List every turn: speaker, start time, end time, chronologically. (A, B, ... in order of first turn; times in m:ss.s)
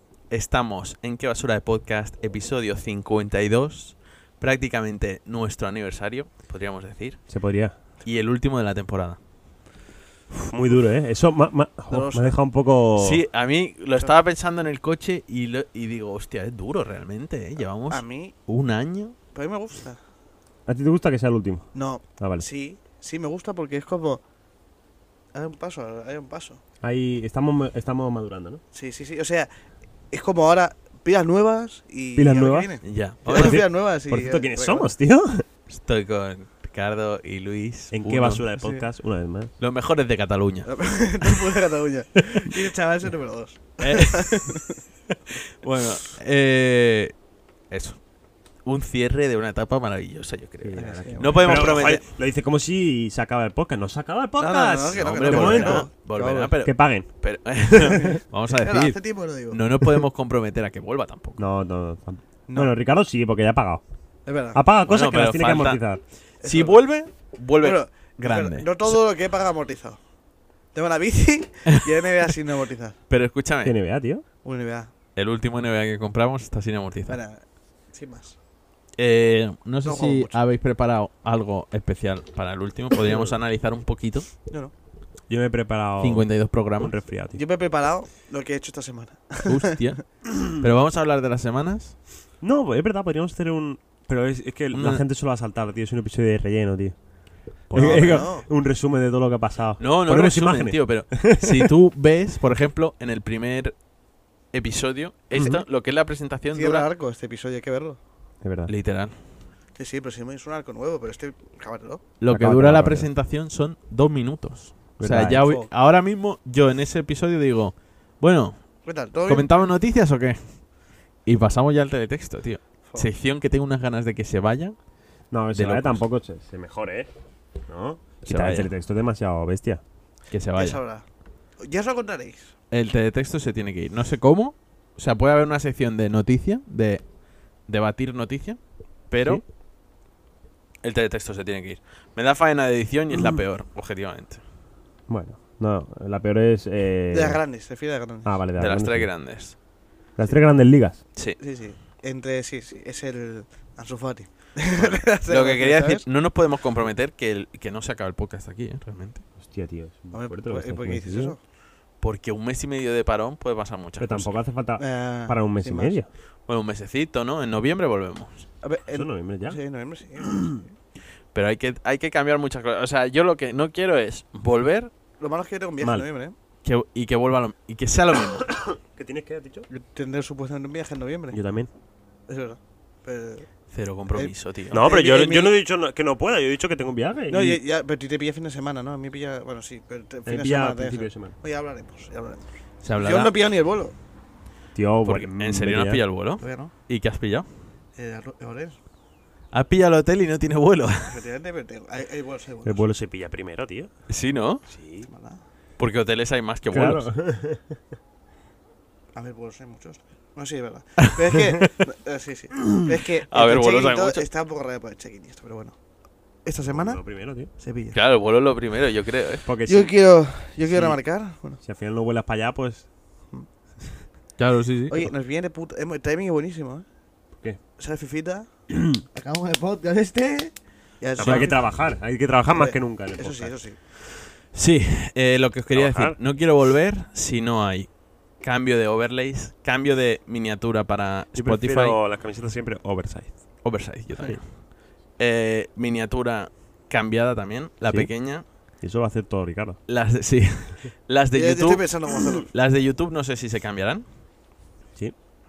0:00.3-0:07.2 A
0:07.3-0:07.7 B
0:08.0-0:09.2 A
0:10.3-0:13.2 B
0:11.9-0:12.3 C
0:13.0-0:19.2 A
0:17.9-0:18.3 C
0:19.3-0:20.0 C
0:20.7-0:21.7 B
0:21.7-0:24.2 C
0:22.2-0:22.4 B
0:25.3-0:26.6 C
0:26.8-0:28.6 B
0:28.7-0:29.5 C
0:30.1-0:34.9 C
0:32.2-0:32.7 B
0:32.8-0:33.6 A
0:33.2-0:35.4 B
0:35.7-0:38.4 A
0:37.9-0:39.5 B
0:38.6-0:38.8 C
0:39.6-0:40.8 A
0:40.6-0:44.8 C
0:43.8-0:44.7 A
0:45.6-0:47.2 A
0:47.7-0:48.0 A
0:48.6-0:52.0 A
0:50.6-0:55.9 B
0:50.8-0:51.9 C
0:54.4-0:56.5 C
0:54.9-1:01.4 A
0:56.6-0:58.2 B
0:58.0-0:59.6 C
1:01.4-1:03.8 B
1:02.5-1:02.7 C
1:04.2-1:04.6 C
1:04.5-1:06.0 B
1:04.8-1:05.8 A
1:06.4-1:09.0 A
1:06.4-1:06.8 C
1:07.6-1:10.0 C
1:10.7-1:13.0 C
1:11.7-1:12.3 A
1:13.1-1:13.7 A
1:13.6-1:14.2 B
1:14.4-1:14.9 C
1:15.1-1:17.2 A
1:17.1-1:18.4 C
1:19.0-1:24.3 A
1:19.8-1:20.4 C
1:23.0-1:23.4 B
1:25.3-1:27.4 B
1:26.0-1:27.0 A
1:27.3-1:29.8 C
1:29.4-1:32.0 A
1:32.4-1:37.0 B
1:34.7-1:35.0 A
1:37.6-1:41.7 B
1:37.7-1:38.2 A
1:37.7-1:38.5 C
1:39.8-1:43.8 A
1:44.5-1:46.9 A
1:45.3-1:45.6 B
1:46.5-1:48.0 C
1:48.4-1:48.7 B
1:48.7-1:49.1 A
1:49.8-1:52.0 C
1:52.2-2:00.7 A
1:52.3-1:53.1 B
1:55.0-1:55.4 B
1:55.4-1:55.7 C
1:58.8-1:59.6 C
2:01.2-2:04.8 A
2:05.3-2:07.1 B
2:05.5-2:06.0 A
2:07.7-2:09.8 B
2:08.2-2:08.7 A
2:10.3-2:10.8 A
2:10.5-2:11.0 C
2:11.6-2:12.5 C
2:12.7-2:19.4 A
2:20.8-2:24.4 A
2:23.1-2:23.4 B
2:25.1-2:27.4 B
2:27.1-2:28.4 C
2:28.2-2:29.1 B
2:28.6-2:29.6 A
2:30.2-2:31.0 B
2:31.4-2:36.0 C
2:34.8-2:39.2 A
2:39.4-2:41.3 B
2:40.1-2:41.4 C
2:42.0-2:44.4 A
2:44.0-2:46.1 B
2:44.8-2:46.0 C
2:46.5-2:48.5 A
2:48.6-2:50.7 C
2:48.9-2:49.6 B
2:50.2-2:50.6 B
2:51.3-2:54.9 A
2:55.2-2:56.3 C
2:55.8-2:56.1 B
2:56.6-2:58.6 A
2:58.5-2:59.7 B
2:59.7-3:01.4 C
3:01.3-3:01.7 B
3:02.3-3:03.5 C
3:03.7-3:04.9 A
3:04.1-3:05.5 C
3:04.7-3:07.6 B
3:07.3-3:13.9 C
3:10.2-3:11.3 B
3:12.8-3:13.3 A
3:14.7-3:16.0 B
3:15.0-3:17.4 A
3:16.4-3:16.7 C
3:18.0-3:18.8 C
3:19.5-3:21.2 A
3:21.1-3:22.8 C
3:22.6-3:23.9 B
3:24.1-3:24.7 A
3:24.6-3:25.1 B
3:25.1-3:25.4 C
3:25.8-3:27.1 A
3:26.7-3:27.8 B
3:29.1-3:35.8 C
3:33.3-3:34.2 A
3:36.4-3:38.0 C
3:36.6-3:37.5 B
3:37.9-3:39.4 A
3:39.4-3:39.9 B
3:39.6-3:41.6 C
3:40.6-3:41.0 B
3:41.6-3:42.9 B
3:44.4-3:45.1 A
3:44.9-3:46.8 C
3:47.8-3:51.6 C
3:51.2-3:53.5 B
3:51.2-3:51.5 A
3:52.5-3:53.8 C
3:54.5-4:02.0 A
3:55.7-3:56.2 B
4:01.3-4:03.6 B
4:03.6-4:08.4 A
4:07.9-4:09.8 B
4:09.9-4:14.0 A
4:11.3-4:12.5 C